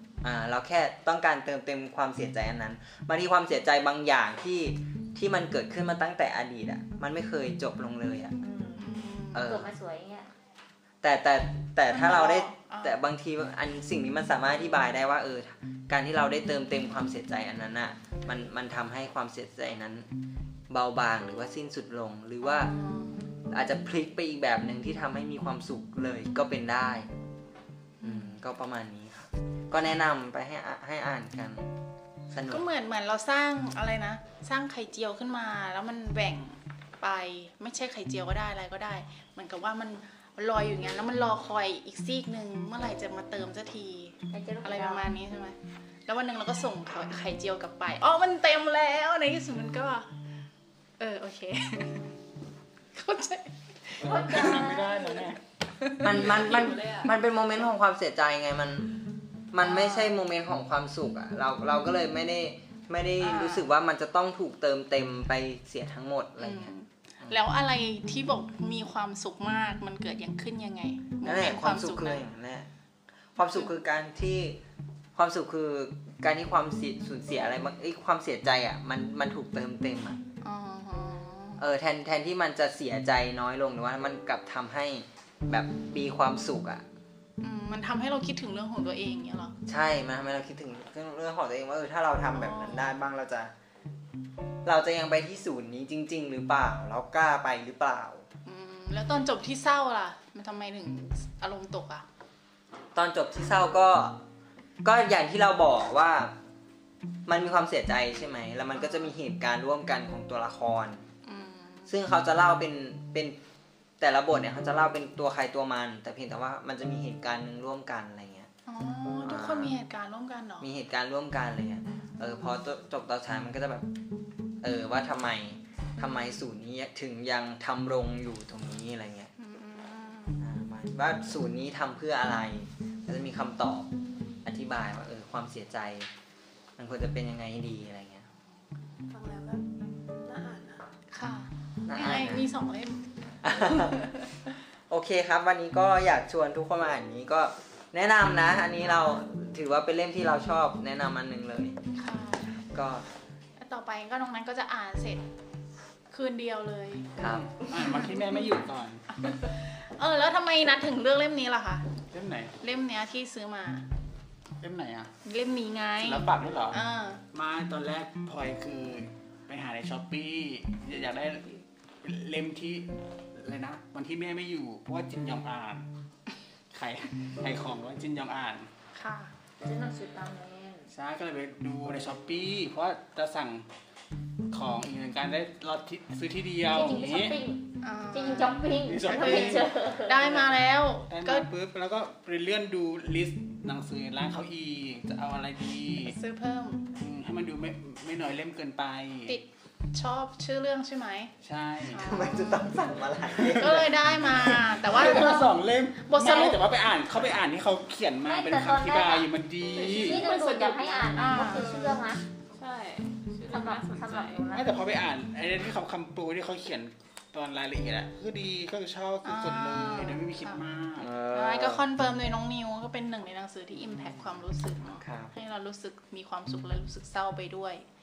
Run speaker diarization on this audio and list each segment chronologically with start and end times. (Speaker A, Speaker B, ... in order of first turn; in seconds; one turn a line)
Speaker A: 0.2-8.3
Speaker B: 8.4-8.8
Speaker C: 8.8-9.5
Speaker A: 9.3-9.7
Speaker B: 9.4-10.3
Speaker A: 11.0-20.1
Speaker C: 11.9-13.0
Speaker A: 20.7-22.7
Speaker C: 22.4-23.2
Speaker A: 23.5-27.1
Speaker C: 28.0-28.4
Speaker A: 28.0-31.7
Speaker A: 32.3-32.6
Speaker C: 32.5-45.5
Speaker B: 44.3-45.0
Speaker C: 46.1-50.1
Speaker C: 51.0-52.0
Speaker C: 52.9-54.4
Speaker D: 54.0-55.4
Speaker B: 54.0-55.3
Speaker C: 55.8-56.9
Speaker A: 56.0-58.9
Speaker E: 56.3-57.1
Speaker A: 59.5-67.4
Speaker C: 59.6-60.1
Speaker C: 63.2-63.6
Speaker C: 66.4-72.3
Speaker A: 71.2-72.7
Speaker A: 73.3-74.6
Speaker A: 75.2-80.2
Speaker C: 80.4-81.6
Speaker A: 81.6-86.8
Speaker C: 87.4-89.5
Speaker A: 89.7-93.5
Speaker C: 92.3-93.0
Speaker A: 94.7-98.2
Speaker C: 98.5-102.0
Speaker A: 102.9-104.2
Speaker A: 104.8-106.3
Speaker A: 107.3-111.0
Speaker C: 108.8-109.1
Speaker C: 111.2-111.9
Speaker A: 111.9-113.4
Speaker A: 114.0-118.5
Speaker C: 118.7-120.7
Speaker A: 119.2-119.7
Speaker A: 120.6-123.9
Speaker A: 124.6-129.3
Speaker C: 126.0-126.4
Speaker C: 129.4-130.4
Speaker A: 130.4-133.9
Speaker A: 134.4-136.1
Speaker A: 136.8-138.2
Speaker E: 139.1-139.6
Speaker E: 140.2-140.8
Speaker C: 141.1-143.1
Speaker A: 141.9-142.4
Speaker A: 143.4-144.0
Speaker A: 144.9-151.8
Speaker C: 151.9-152.5
Speaker A: 152.7-153.1
Speaker C: 153.6-155.2
Speaker C: 156.1-157.1
Speaker A: 157.2-157.5
Speaker D: 157.2-159.0
Speaker C: 159.5-161.8
Speaker D: 162.1-162.5
Speaker C: 162.6-163.8
Speaker D: 164.6-165.1
Speaker C: 165.2-167.2
Speaker D: 166.0-166.8
Speaker D: 167.3-175.8
Speaker D: 176.7-178.7
Speaker C: 178.9-179.3
Speaker B: 179.6-180.9
Speaker D: 180.9-183.7
Speaker D: 184.5-187.3
Speaker B: 186.7-190.1
Speaker C: 187.8-191.5
Speaker D: 188.5-196.1
Speaker C: 196.1-196.8
Speaker D: 196.9-199.4
Speaker C: 199.2-201.3
Speaker D: 201.4-202.1
Speaker C: 201.9-202.7
Speaker A: 201.9-203.9
Speaker D: 203.4-210.2
Speaker C: 203.4-205.5
Speaker C: 206.0-206.6
Speaker B: 208.2-209.3
Speaker E: 209.7-214.5
Speaker B: 209.9-212.2
Speaker C: 211.1-211.7
Speaker B: 213.4-214.7
Speaker D: 214.5-221.1
Speaker C: 219.2-220.6
Speaker A: 221.0-221.9
Speaker C: 221.3-227.8
Speaker A: 225.0-225.3